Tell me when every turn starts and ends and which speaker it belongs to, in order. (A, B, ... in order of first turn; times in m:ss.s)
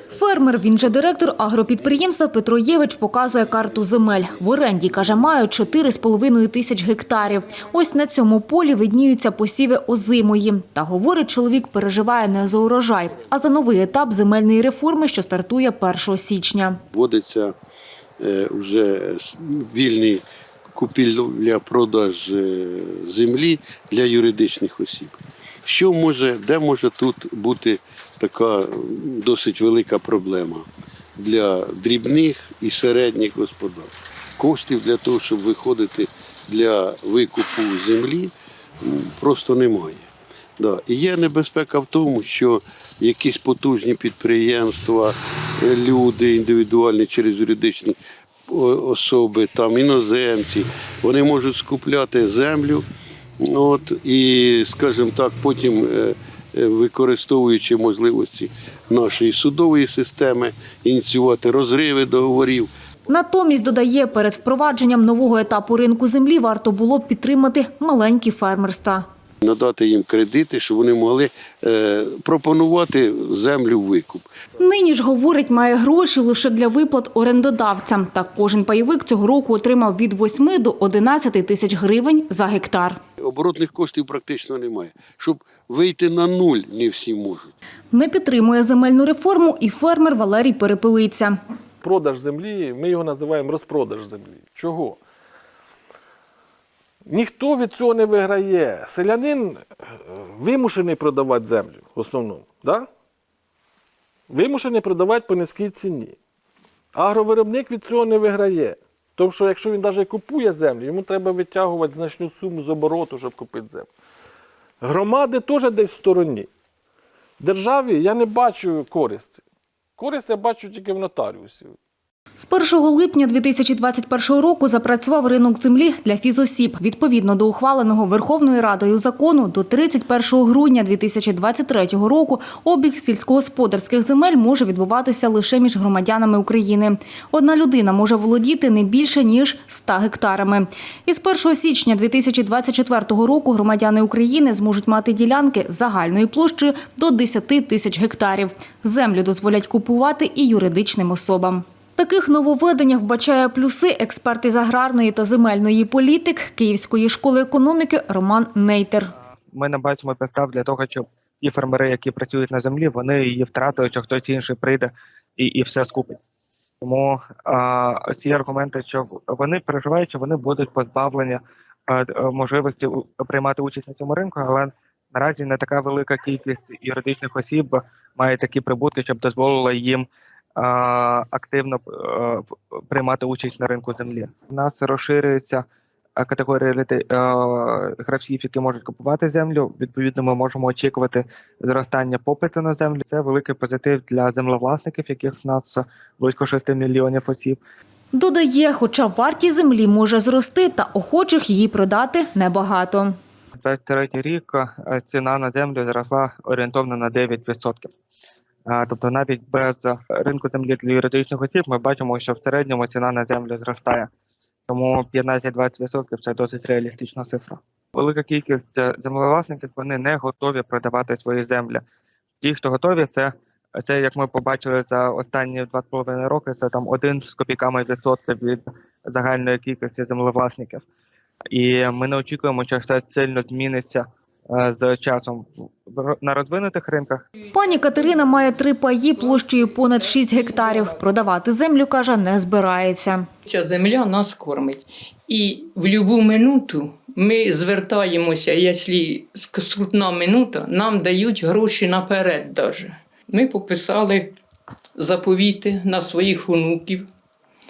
0:00.1-0:16.8 A
0:16.9-0:17.5 B
0:18.2-0:52.8 B
0:53.4-1:02.7 B
1:03.1-1:09.0 A
1:09.4-1:14.2 B
1:14.6-1:23.0 A
1:23.2-1:27.5 B
1:27.9-1:31.4 A
1:31.8-1:35.0 C
1:37.0-1:42.9 C
1:44.3-1:46.2 C
1:46.9-1:53.9 C
1:54.8-1:56.5 C
1:57.4-1:59.4 C
2:00.0-2:01.7 C
2:02.4-2:39.1 A
2:39.5-2:46.2 D
2:46.8-3:05.6 D
3:06.2-3:17.6 D
3:18.1-3:23.2 A
3:23.6-3:27.9 D
3:28.6-3:34.1 D
3:34.7-3:41.8 D
3:42.4-3:50.8 D
3:51.5-3:57.3 D
3:57.5-4:03.3 A
4:03.5-4:14.3 E
4:15.0-4:17.1 E